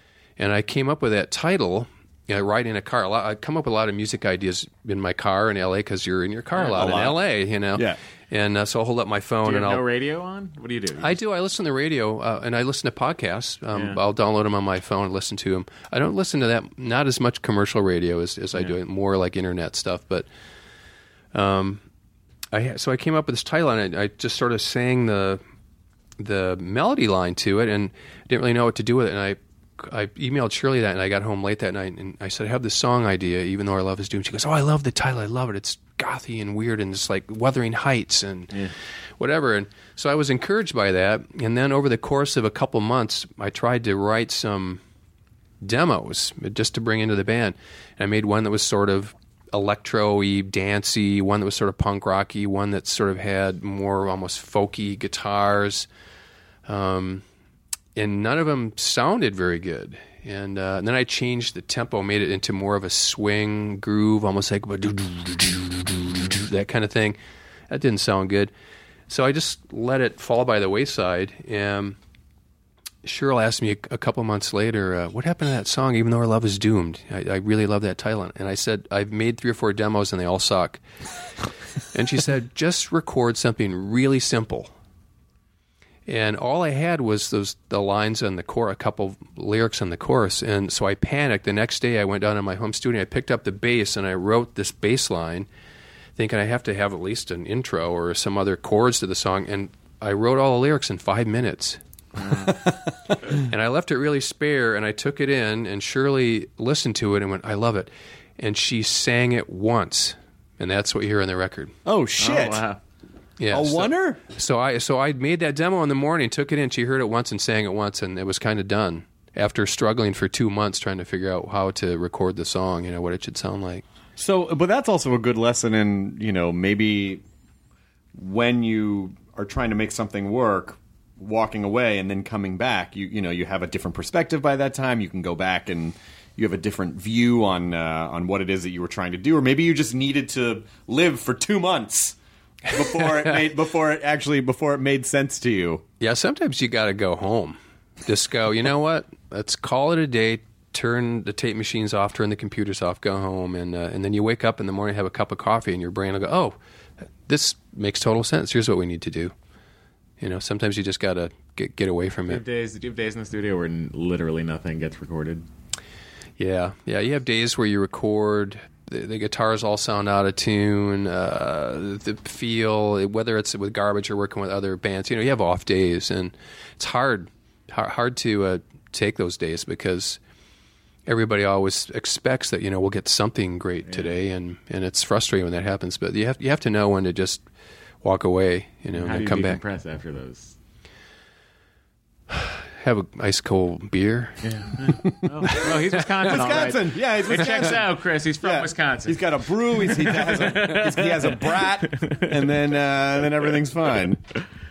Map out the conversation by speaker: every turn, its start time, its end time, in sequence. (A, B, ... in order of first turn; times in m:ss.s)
0:00.4-0:09.8 A
0:06.6-0:07.2 B
0:09.4-0:11.2 C
0:11.0-0:20.3 A
0:13.7-0:14.0 C
0:21.3-0:21.8 A
0:22.5-0:25.4 A
0:26.2-0:38.6 A
0:39.2-0:44.8 A
0:45.6-0:55.9 A
0:56.7-0:57.2 A
0:58.0-1:07.2 A
1:07.7-1:08.5 A
1:09.1-1:12.0 A
1:13.0-1:20.8 A
1:21.9-1:24.7 A
1:26.1-1:35.5 A
1:36.2-1:41.8 A
1:42.2-1:42.5 C
1:43.4-1:51.7 A
1:51.8-1:52.7 B
1:52.2-1:52.8 C
1:53.4-2:03.8 A
1:53.5-1:54.2 B
2:04.2-2:07.2 B
2:08.2-2:25.8 B
2:26.0-2:36.6 A
2:37.3-2:39.3 A
2:40.2-2:42.4 A
2:42.3-2:45.4 C
2:46.4-3:00.2 A
3:01.1-3:07.4 A
3:08.0-3:09.6 A
3:08.9-3:10.6 C
3:12.3-3:14.4 A
3:14.4-3:22.6 C
3:16.2-3:17.9 B
3:18.4-3:24.3 B